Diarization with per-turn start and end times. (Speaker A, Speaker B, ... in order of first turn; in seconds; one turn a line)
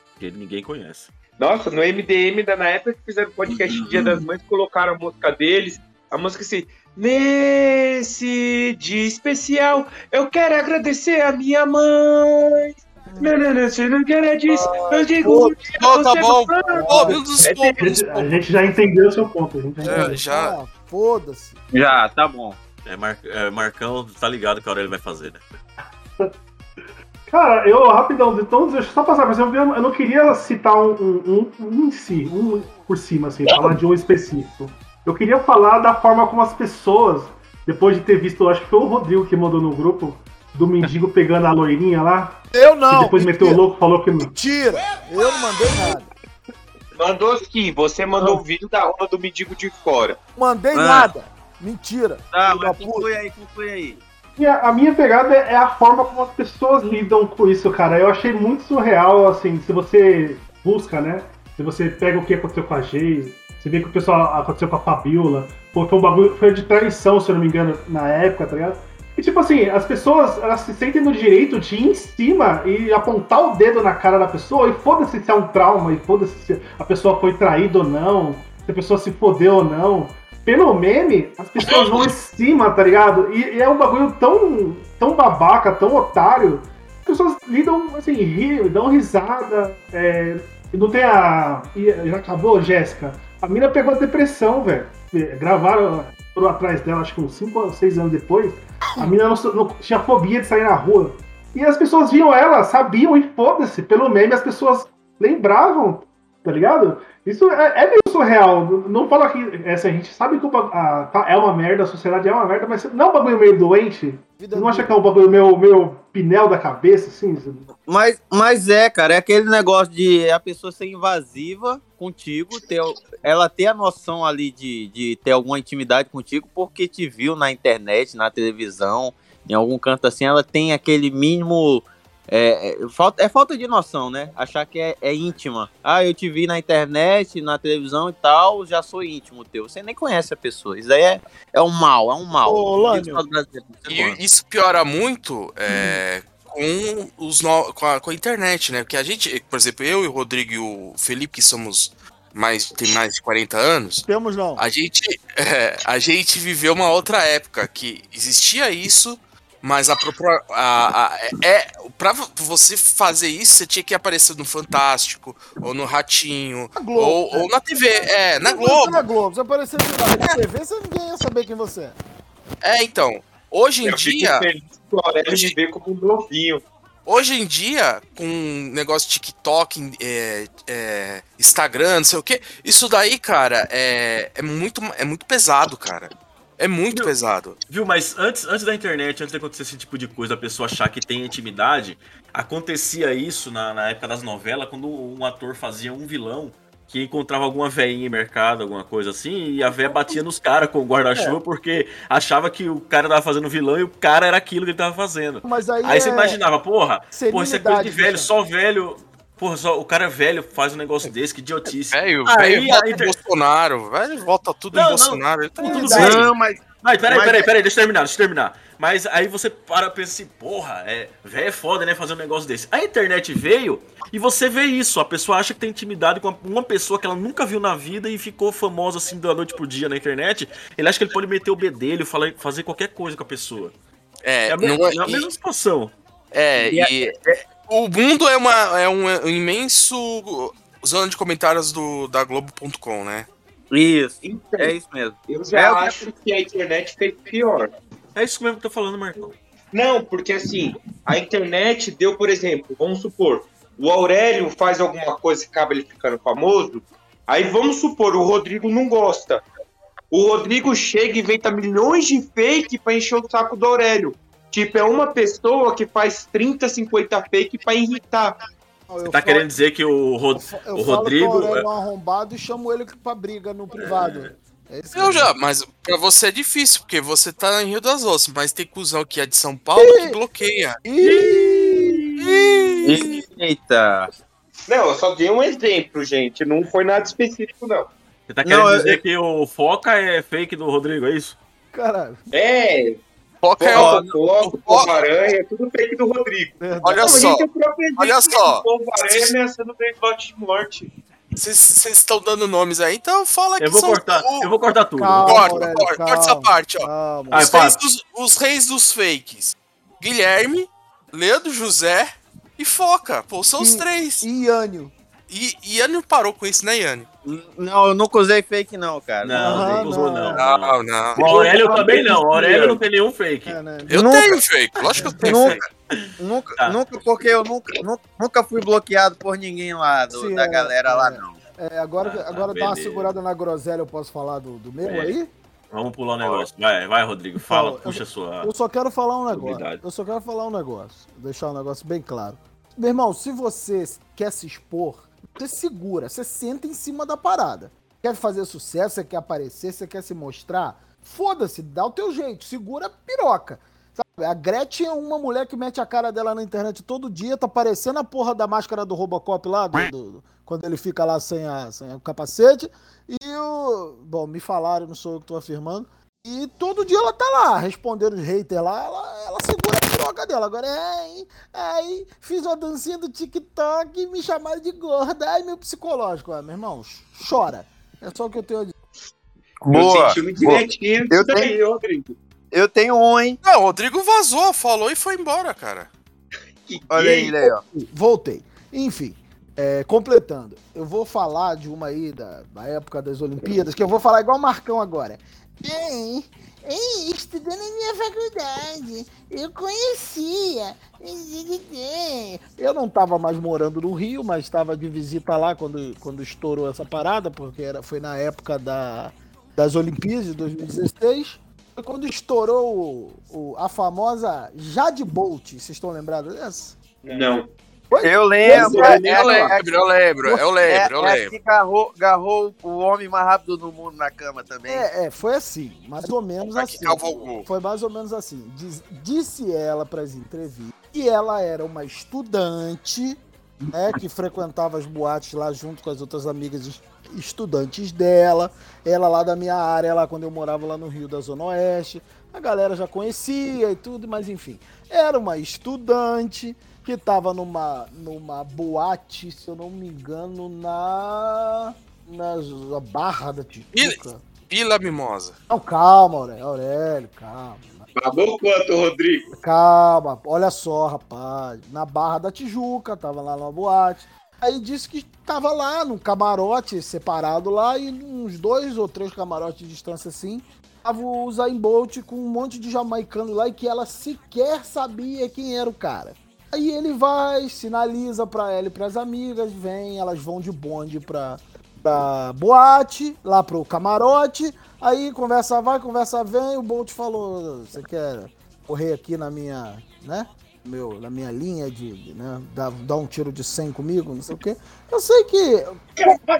Speaker A: 0.2-1.1
Speaker B: 1.4-17.8
Speaker C: 13.1-13.3
Speaker C: 14.5-15.6
Speaker D: 15.8-18.4
Speaker C: 16.6-17.4
Speaker E: 17.4-17.8
Speaker F: 17.8-20.2
Speaker D: 19.8-20.6
Speaker C: 19.8-21.6
Speaker E: 21.7-22.6
Speaker A: 22.9-25.4
Speaker F: 27.3-44.3
Speaker C: 42.5-43.6
Speaker C: 44.2-46.1
Speaker B: 47.0-50.2
Speaker C: 50.4-53.1
Speaker E: 50.7-51.1
Speaker E: 52.3-54.0
Speaker F: 54.4-117.7
Speaker C: 114.4-114.9
Speaker E: 117.8-144.2
Speaker C: 142.4-143.2
Speaker D: 143.9-169.0
Speaker C: 145.7-146.0
Speaker C: 154.1-154.7
Speaker C: 166.8-172.0
Speaker D: 170.1-170.4
Speaker D: 172.6-174.5
Speaker B: 173.9-176.6
Speaker D: 175.3-175.5
Speaker D: 177.1-187.6
Speaker A: 187.7-213.2
Speaker C: 199.8-200.2
Speaker C: 205.4-206.4
Speaker C: 207.1-208.3
Speaker D: 211.9-216.3
Speaker A: 214.7-233.8
Speaker C: 215.6-216.3
Speaker E: 215.9-217.5
Speaker D: 234.2-235.3
Speaker A: 234.5-235.9
Speaker D: 236.3-243.3
Speaker E: 236.6-237.4
Speaker E: 243.7-246.1
Speaker B: 244.2-247.7
Speaker A: 248.2-249.4
Speaker B: 249.7-259.4
Speaker B: 260.1-268.4
Speaker C: 268.9-269.5
Speaker A: 269.1-271.7
Speaker C: 270.3-275.3
Speaker A: 273.8-274.3
Speaker D: 274.9-280.8
Speaker C: 279.8-280.2
Speaker C: 280.9-283.2
Speaker D: 282.5-283.2
Speaker E: 282.8-284.1
Speaker B: 284.7-287.9
Speaker A: 288.3-291.4
Speaker E: 288.4-289.0
Speaker C: 291.7-292.3
Speaker B: 292.3-293.0
Speaker D: 293.4-294.9
Speaker B: 293.6-300.9
Speaker E: 293.8-294.0
Speaker C: 296.6-297.3
Speaker D: 296.8-297.5
Speaker D: 298.0-299.3
Speaker D: 301.4-304.5
Speaker A: 303.6-305.7
Speaker C: 305.0-307.6
Speaker D: 305.3-314.3
Speaker A: 307.3-307.8
Speaker C: 313.6-314.9
Speaker D: 315.3-317.1
Speaker E: 317.2-319.9
Speaker A: 319.2-323.6
Speaker C: 319.3-320.4
Speaker D: 320.4-321.2
Speaker C: 321.5-322.7
Speaker C: 323.5-324.0
Speaker D: 323.9-325.6
Speaker E: 323.9-324.4
Speaker E: 325.2-325.6
Speaker A: 325.2-326.0
Speaker E: 326.2-331.4
Speaker C: 330.1-335.3
Speaker A: 332.0-333.1
Speaker A: 334.8-335.2
Speaker A: 335.7-338.5
Speaker C: 337.4-378.7
Speaker A: 339.3-339.8
Speaker E: 379.6-381.6
Speaker B: 379.7-382.2
Speaker E: 382.5-383.4
Speaker D: 383.4-385.9
Speaker B: 386.7-387.4
Speaker E: 386.9-387.6
Speaker C: 387.7-416.8
Speaker B: 417.0-417.5
Speaker C: 417.9-419.0
Speaker E: 418.0-419.7
Speaker B: 418.5-418.9
Speaker D: 418.5-421.3
Speaker E: 420.6-424.9
Speaker C: 424.7-454.2
Speaker D: 426.6-427.5
Speaker D: 454.5-455.4
Speaker C: 455.5-457.9
Speaker B: 458.0-459.3
Speaker C: 459.4-495.9